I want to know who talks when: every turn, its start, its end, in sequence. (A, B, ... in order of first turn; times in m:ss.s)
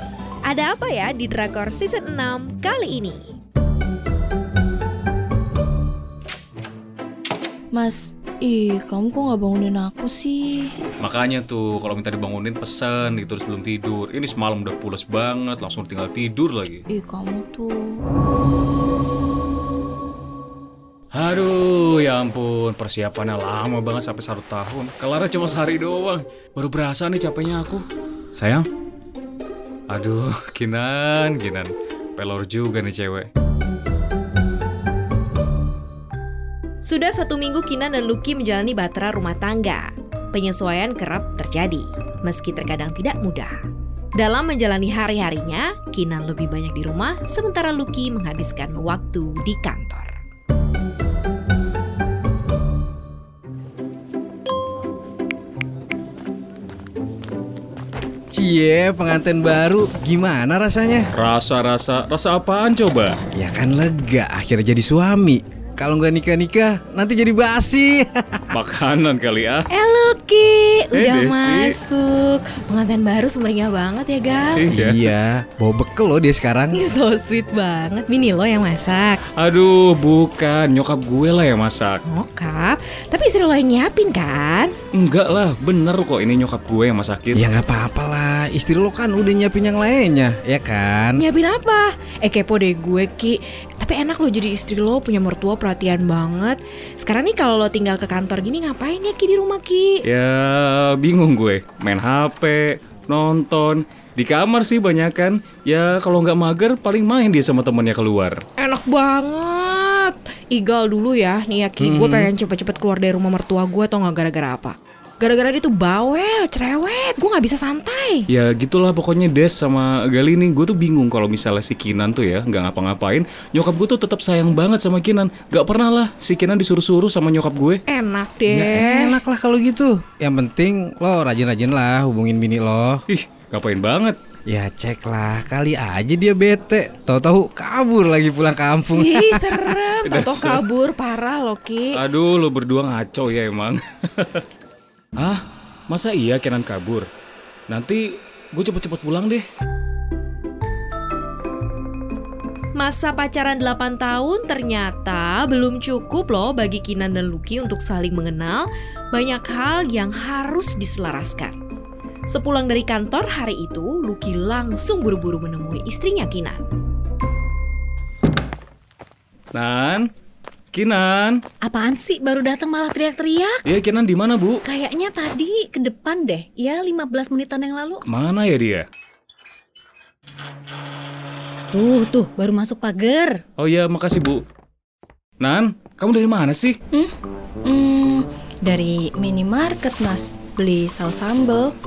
0:00.4-0:03.4 A
0:07.7-0:10.7 B
0:11.0-0:16.8 C
0:16.9-0:18.0 B
0:21.1-0:28.7 C
0:29.9-0:33.3 C
0:36.8-0:43.5 A
0:44.2-0:50.1 A
0:58.3-1:01.1 D
1:01.1-1:03.2 C
1:03.3-1:08.5 D
1:08.5-1:09.7 C
1:09.7-1:14.7 A
1:10.9-1:11.8 C
1:14.5-1:15.1 C
1:14.7-1:16.8 D
1:16.7-1:19.2 A
1:19.4-1:22.0 C
1:22.1-1:24.7 A
1:24.9-1:27.4 C
1:27.3-1:31.2 D
1:31.2-1:40.0 A
1:40.0-1:48.4 C
1:48.6-1:58.3 A
1:51.8-1:52.1 D
1:58.3-2:07.8 C
2:07.9-2:09.2 A
2:08.5-2:13.0 D
2:13.1-2:14.2 C
2:14.5-2:19.5 D
2:18.9-2:22.0 A
2:20.0-2:20.7 C
2:21.9-2:24.4 C
2:25.2-2:27.0 C
2:27.7-2:28.0 C
2:28.5-2:29.4 C
2:32.7-2:41.6 A
2:42.3-2:46.6 A
2:49.5-2:50.1 C
2:50.7-2:51.4 C
2:51.6-2:53.6 E
2:53.6-2:54.6 C
2:54.6-2:58.0 E
2:58.0-2:58.8 C
3:01.7-3:03.4 E
3:03.6-3:04.4 C
3:05.4-3:06.8 C
3:07.6-3:11.7 B